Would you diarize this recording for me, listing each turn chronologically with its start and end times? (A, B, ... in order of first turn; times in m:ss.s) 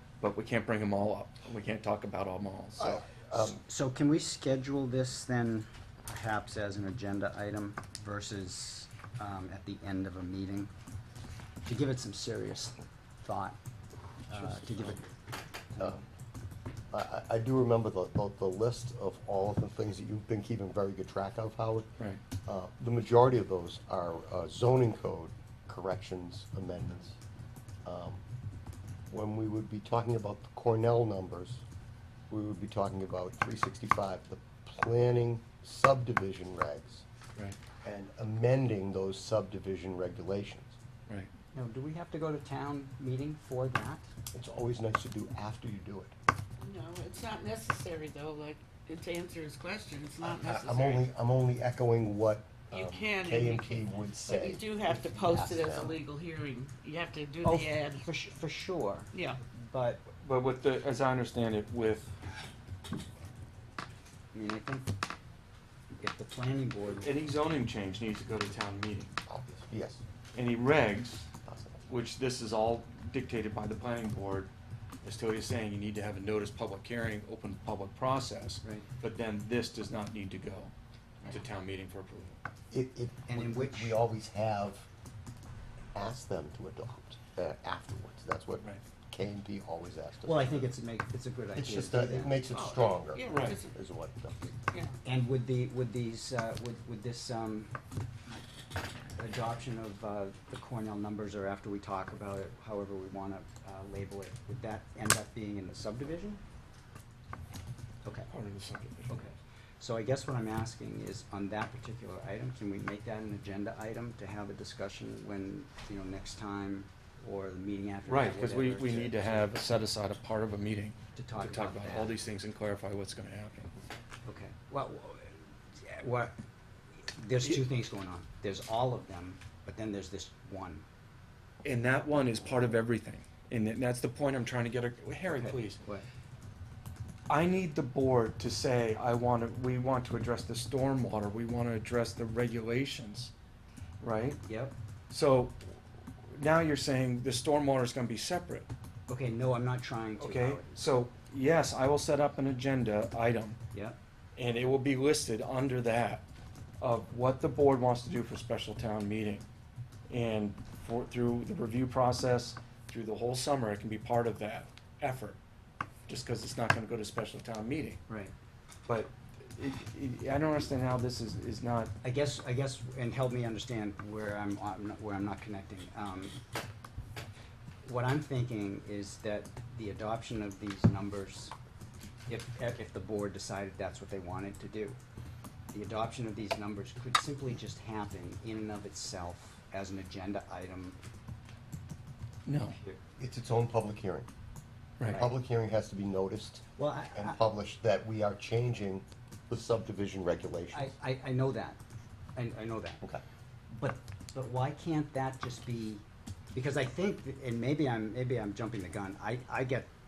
0:00.2-0:03.0 A
0:02.8-0:03.6 B
0:03.3-0:10.7 C
0:11.6-0:13.6 C
0:14.3-0:15.0 C
0:14.3-0:15.0 A
0:15.8-0:16.0 B
0:16.9-0:21.9 B
0:22.4-0:27.2 B
0:27.8-0:28.2 B
0:29.1-0:31.6 B
0:32.3-0:37.0 B
0:37.8-0:40.8 B
0:41.5-0:44.0 C
0:44.3-0:46.1 B
0:46.6-0:51.0 D
0:50.2-0:56.0 B
0:52.7-0:58.0 D
0:57.4-1:00.0 C
0:59.1-0:59.4 D
1:00.1-1:02.1 A
1:04.3-1:04.9 C
1:06.0-1:07.1 C
1:07.0-1:09.2 A
1:09.3-1:10.0 B
1:10.3-1:11.3 A
1:11.4-1:11.8 B
1:11.8-1:14.5 A
1:15.0-1:20.7 A
1:21.2-1:22.4 A
1:22.7-1:24.9 B
1:23.2-1:24.0 C
1:25.9-1:30.7 B
1:30.2-1:32.5 C
1:31.5-1:34.6 B
1:32.5-1:33.7 D
1:33.2-1:33.6 A
1:34.7-1:35.0 D
1:35.0-1:37.7 C
1:39.2-1:46.4 C
1:48.0-1:48.3 C
1:48.3-1:49.3 A
1:49.1-1:59.5 C
1:58.0-2:03.7 A
2:01.2-2:02.1 C
2:04.2-2:06.3 C
2:07.2-2:10.8 C
2:11.6-2:15.8 A
2:15.3-2:16.1 C
2:17.3-2:23.3 A
2:24.0-2:24.4 A
2:24.4-2:24.7 C
2:25.1-2:25.6 A
2:26.3-2:28.7 A
2:29.1-2:30.9 C
2:30.2-2:33.6 A
2:34.4-2:36.2 A
2:36.8-2:39.5 A
2:40.1-2:45.4 A
2:46.1-2:48.0 A
2:48.9-2:51.9 A
2:52.0-2:56.4 C
2:57.8-3:01.5 C
3:02.3-3:05.0 C
3:05.7-3:11.0 C
3:12.4-3:12.8 A
3:13.2-3:14.3 B
3:15.0-3:15.2 A
3:15.0-3:15.3 C
3:15.1-3:20.9 B
3:16.8-3:17.4 C
3:20.7-3:21.8 C
3:22.4-3:23.0 C
3:23.7-3:29.9 C